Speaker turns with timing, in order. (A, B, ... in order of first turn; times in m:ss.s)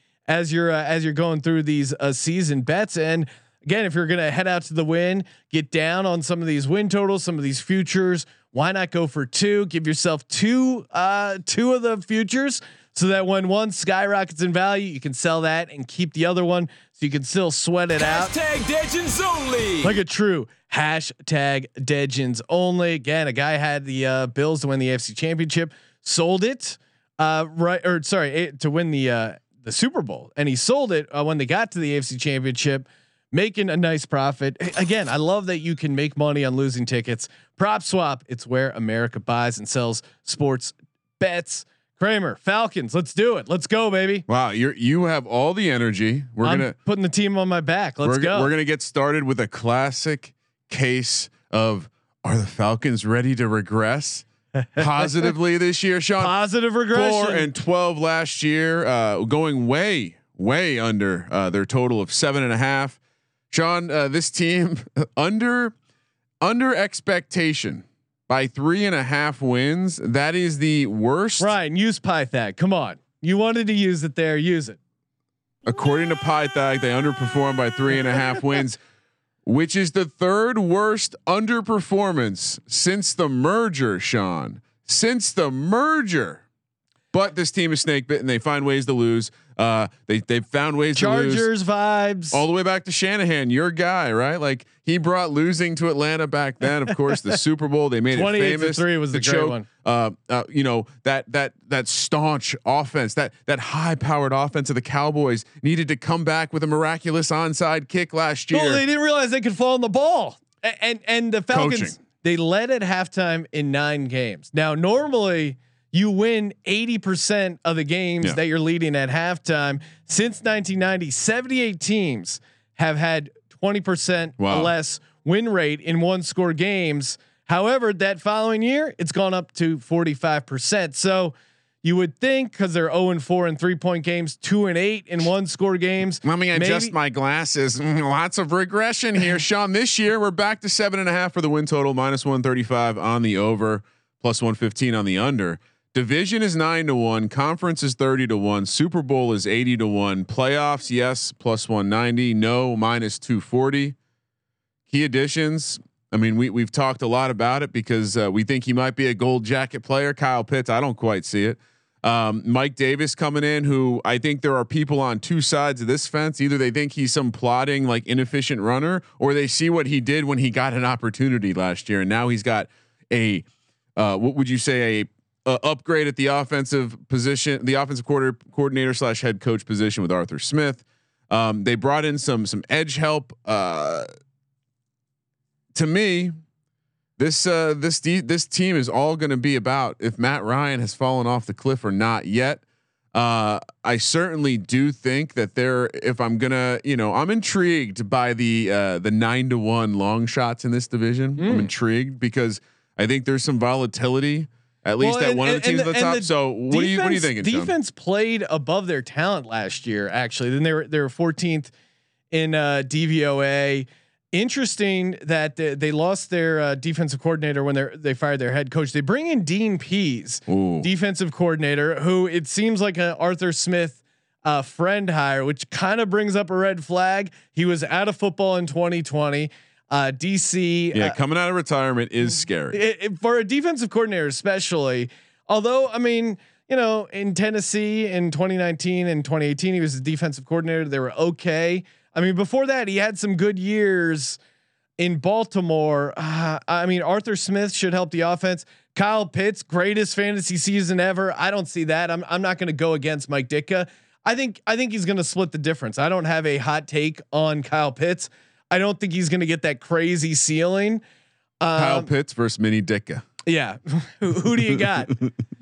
0:00.3-0:18.3 A
0:18.0-0:20.0 B
0:19.8-0:44.2 A
0:44.3-0:46.8 C
0:46.4-0:48.5 A
0:48.0-0:56.3 C
0:56.2-0:57.5 A
0:56.9-1:03.0 C
1:03.5-1:05.7 C
1:06.4-1:11.5 C
1:11.4-1:14.8 A
1:15.6-1:18.8 C
1:19.4-1:26.4 C
1:27.1-1:31.5 C
1:30.9-1:32.4 A
1:32.3-1:48.8 C
1:38.1-1:39.7 A
1:48.5-2:16.9 A
1:51.5-1:52.0 C
2:04.4-2:04.7 C
2:16.2-2:34.0 C
2:34.9-3:04.1 C
3:05.7-3:06.4 C
3:07.2-3:12.6 C
3:13.1-3:27.7 C
3:21.4-3:21.7 A
3:25.0-3:31.7 A
3:32.3-3:51.2 A
3:40.5-3:40.9 C
3:50.9-3:52.8 C
3:52.7-4:04.4 A
4:05.0-4:21.0 A
4:21.6-4:22.1 A
4:21.8-4:23.2 C
4:23.5-4:25.2 A